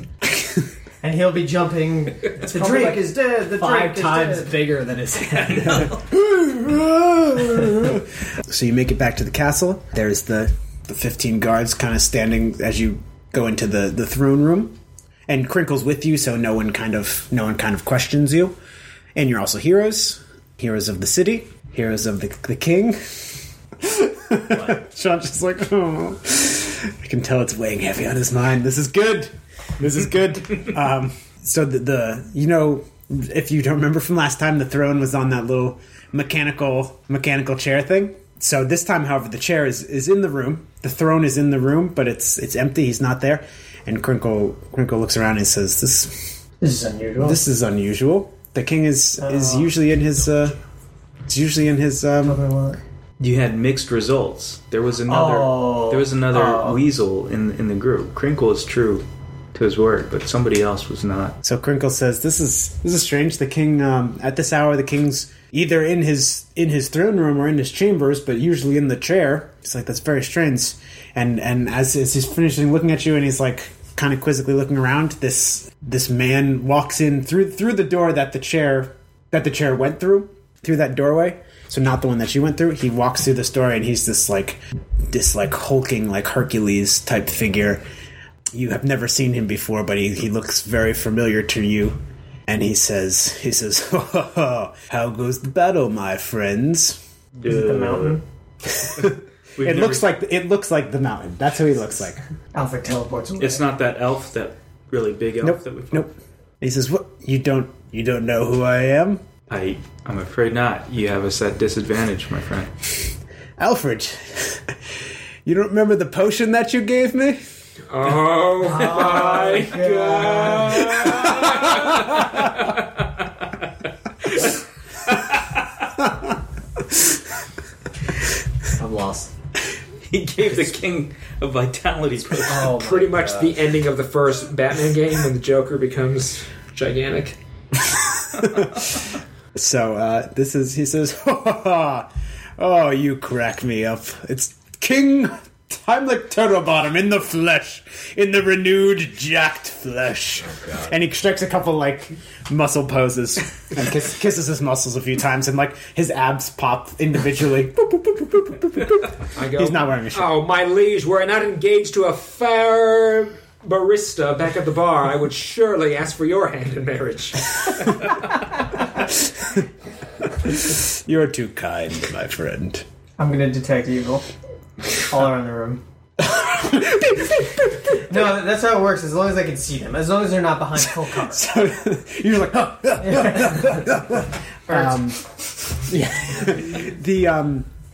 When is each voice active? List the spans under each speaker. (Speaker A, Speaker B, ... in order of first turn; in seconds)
Speaker A: 1.0-4.6, 46.6-47.4, 49.2-49.7, 52.2-52.8, 55.1-56.8, 97.4-98.2, 102.5-103.6, 118.7-121.2, 173.2-174.2, 175.0-175.8, 178.0-181.4, 183.0-183.9, 184.7-184.9
Speaker B: 2.5-3.0, 3.5-5.9, 128.8-129.3, 132.5-133.5, 150.4-150.9
Speaker C: 6.1-14.8, 15.3-18.6, 19.1-46.4, 47.2-50.6, 51.3-52.4, 61.4-87.8, 88.5-97.0, 98.8-102.2, 105.4-109.2, 113.6-114.7, 115.4-117.4, 138.3-139.0, 139.5-160.4, 170.4-172.8, 176.2-178.1, 180.8-185.2, 185.8-187.7
Speaker D: 53.2-61.4, 97.4-98.2, 99.0-100.1, 103.4-106.1, 109.5-112.7, 120.9-122.8, 125.1-125.4, 130.1-132.7
Speaker E: 117.9-121.9, 132.6-137.4, 159.3-168.0